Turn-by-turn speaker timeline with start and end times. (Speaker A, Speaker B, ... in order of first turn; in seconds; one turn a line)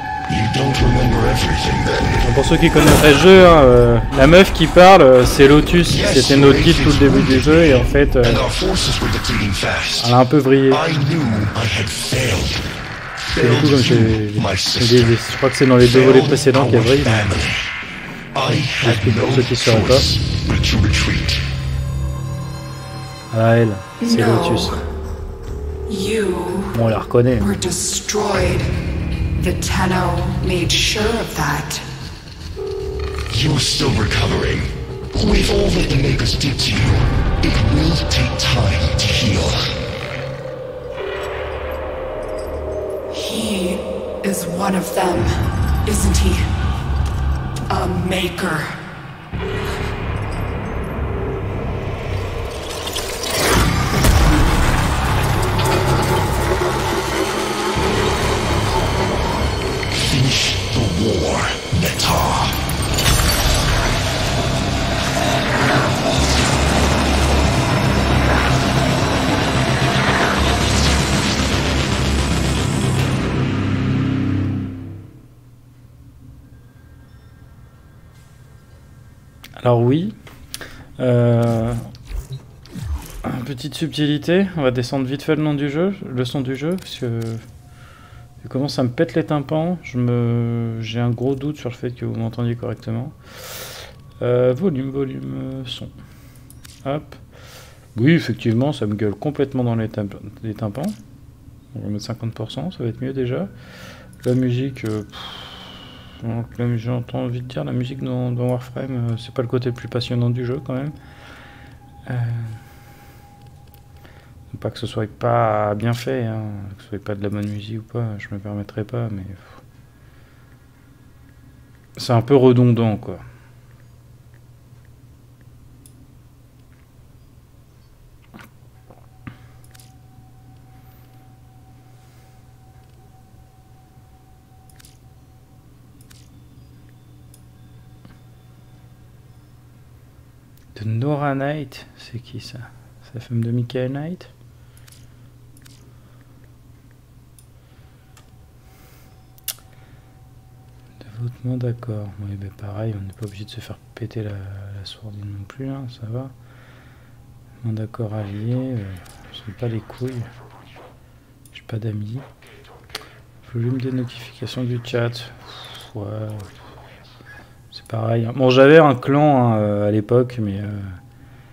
Speaker A: 0.3-2.2
Speaker B: 2.2-8.4
Speaker A: 5.9-10.1
Speaker B: 10.0-10.8
Speaker A: 10.7-12.7
Speaker A: 13.2-15.2
Speaker B: 13.3-17.3
Speaker A: 15.8-17.6
Speaker A: 18.3-21.4
Speaker B: 18.8-20.1
Speaker B: 23.3-24.7
Speaker C: 24.0-24.8
Speaker C: 25.9-26.9
Speaker B: 26.7-27.5
Speaker C: 27.4-28.7
Speaker C: 29.4-31.8
Speaker A: 33.3-39.6
Speaker C: 43.1-46.5
Speaker C: 47.7-48.8
Speaker A: 59.9-62.6
Speaker B: 79.6-80.1
Speaker B: 81.0-81.8
Speaker B: 83.2-87.4
Speaker B: 88.4-95.9
Speaker B: 96.8-97.2
Speaker B: 97.9-101.0
Speaker B: 101.7-103.5
Speaker B: 104.2-110.9
Speaker B: 112.1-112.6
Speaker B: 114.5-119.6
Speaker B: 122.0-123.2
Speaker B: 140.7-144.3
Speaker B: 151.0-156.3
Speaker B: 157.6-160.3
Speaker B: 161.5-162.2
Speaker B: 163.4-166.6
Speaker B: 167.7-171.0